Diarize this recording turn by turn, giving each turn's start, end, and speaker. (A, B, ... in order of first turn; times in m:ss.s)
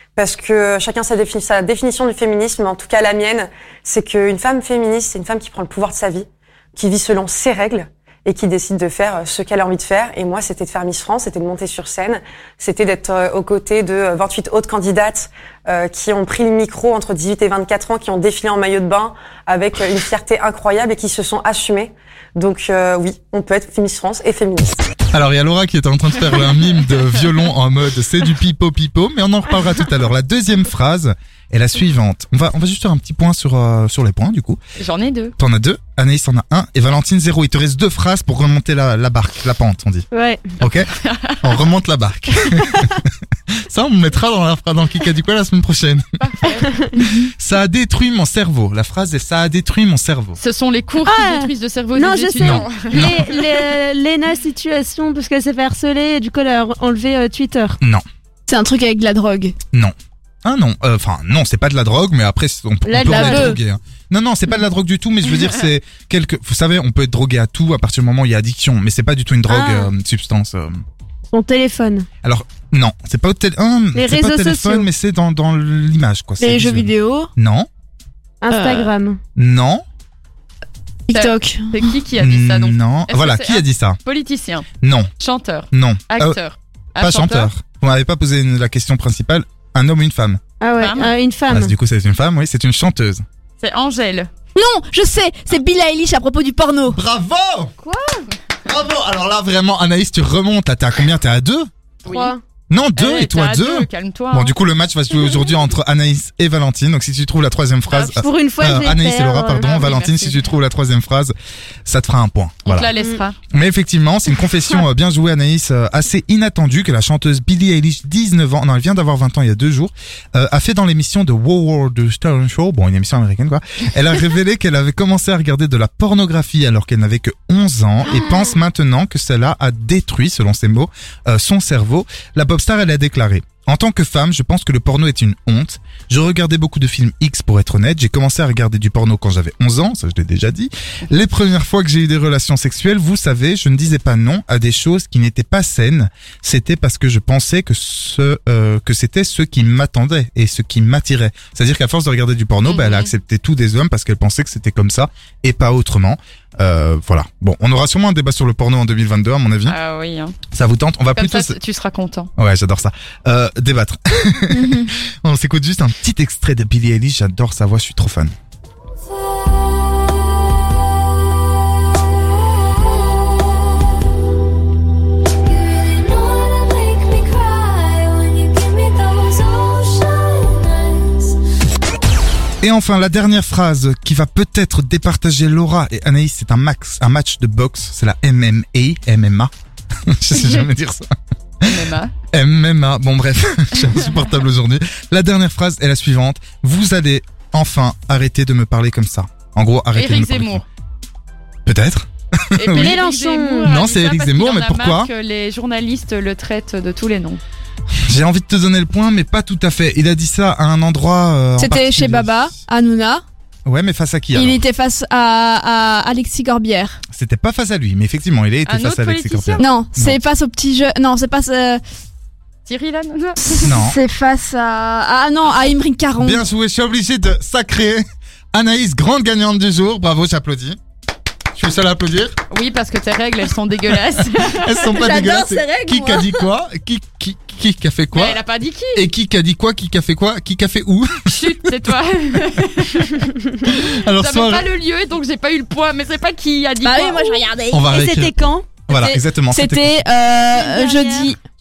0:00.2-0:24.8 A
0:25.1-0:34.6 B
0:34.8-0:35.3 C
0:35.4-0:40.1 B
0:40.1-0:40.6 D
0:40.6-0:43.0 B
0:41.1-0:41.5 C
0:43.7-0:46.0 B
0:46.2-0:46.7 C
0:47.1-0:50.4 B
0:50.4-0:53.2 C
0:51.0-0:57.8 D
0:52.4-0:53.3 B
0:58.5-0:59.6 E
1:00.4-1:10.8 B
1:02.8-1:03.5 D
1:03.1-1:03.6 E
1:09.5-1:09.9 D
1:11.3-1:12.1 D
1:12.2-1:17.7 B
1:13.9-1:14.9 D
1:16.4-1:17.3 E
1:18.4-1:19.2 D
1:18.5-1:18.9 E
1:19.4-1:19.8 B
1:21.1-1:21.9 E
1:21.1-1:24.7 C
1:22.2-1:24.0 B
1:24.8-1:25.1 B
1:25.2-1:27.5 C
1:25.7-1:26.4 B
1:27.0-1:30.4 B
1:30.6-1:31.7 D
1:30.8-1:31.1 C
1:31.5-1:33.2 B
1:33.6-1:34.3 C
1:34.6-1:37.0 E
1:36.9-1:37.7 B
1:38.6-1:41.7 B
1:42.1-1:42.4 C
1:42.1-1:42.4 D
1:42.7-1:51.3 B
1:43.0-1:44.6 C
1:47.9-1:48.2 C
1:48.2-1:49.7 D
1:49.6-1:50.5 C
1:51.9-1:52.9 B
1:52.6-1:53.4 C
1:53.5-2:39.8 B
2:32.7-2:33.1 C
2:39.7-2:40.4 C
2:40.5-2:41.6 B
2:41.1-2:42.3 C
2:42.4-2:48.3 B
2:44.5-2:44.9 E
3:02.6-3:09.5 B
3:10.1-3:11.1 B
3:11.6-3:12.1 C
3:12.3-3:20.6 B
3:19.9-3:20.6 C
3:21.7-3:23.0 B
3:22.6-3:27.4 C
3:22.7-3:23.7 D
3:23.7-3:25.1 B
3:28.1-3:32.5 B
3:31.6-3:33.2 E
3:33.7-3:34.6 B
3:34.3-3:37.0 E
3:37.1-3:40.2 B
3:38.7-3:39.6 C
3:39.6-3:41.8 E
3:42.6-3:43.7 C
3:43.5-3:46.4 E
3:43.6-3:44.0 B
3:46.2-3:50.8 B
3:51.5-3:52.4 B
3:52.5-3:54.8 C
3:54.4-3:58.4 B
3:54.9-3:56.4 E
3:58.1-3:59.1 C
3:59.0-4:01.6 B
4:01.3-4:07.4 C
4:03.7-4:04.7 B
4:06.8-4:07.9 E
4:07.7-4:08.4 B
4:07.9-4:08.8 D
4:08.9-4:10.0 B
4:08.9-4:11.4 E
4:10.5-4:11.3 D